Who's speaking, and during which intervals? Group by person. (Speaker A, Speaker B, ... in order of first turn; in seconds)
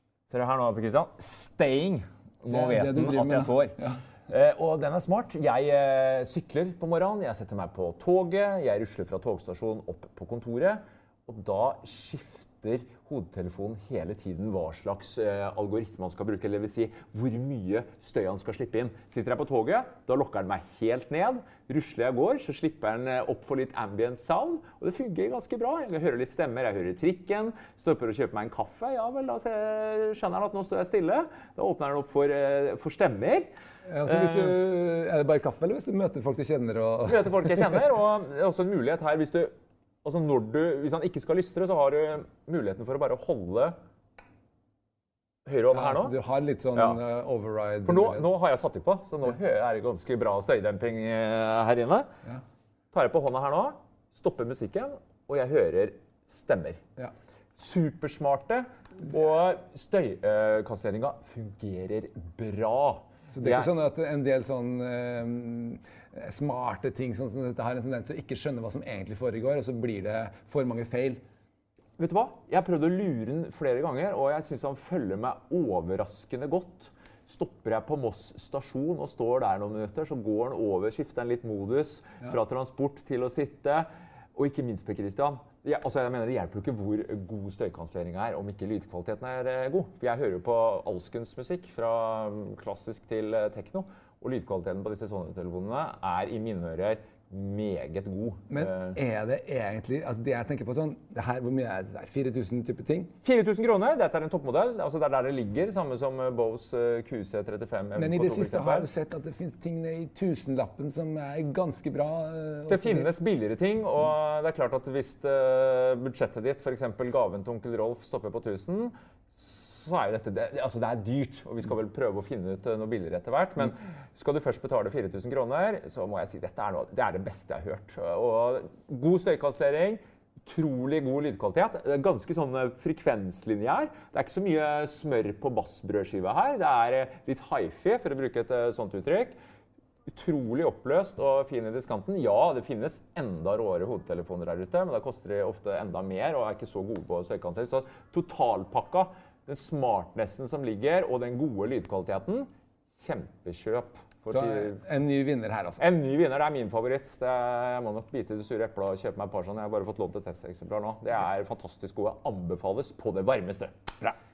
Speaker A: 0.3-33.5, 34.0-34.5, 37.1-39.5, 40.0-43.8, 45.5-46.1, 47.8-52.1, 52.9-56.8, 57.5-63.7, 72.0-99.0, 103.2-108.9, 112.7-139.3, 140.1-154.8, 155.8-164.1
Speaker B: 2.5-4.0, 33.9-37.8, 45.7-48.3, 63.3-71.2, 98.5-103.1, 108.0-113.1, 154.3-155.8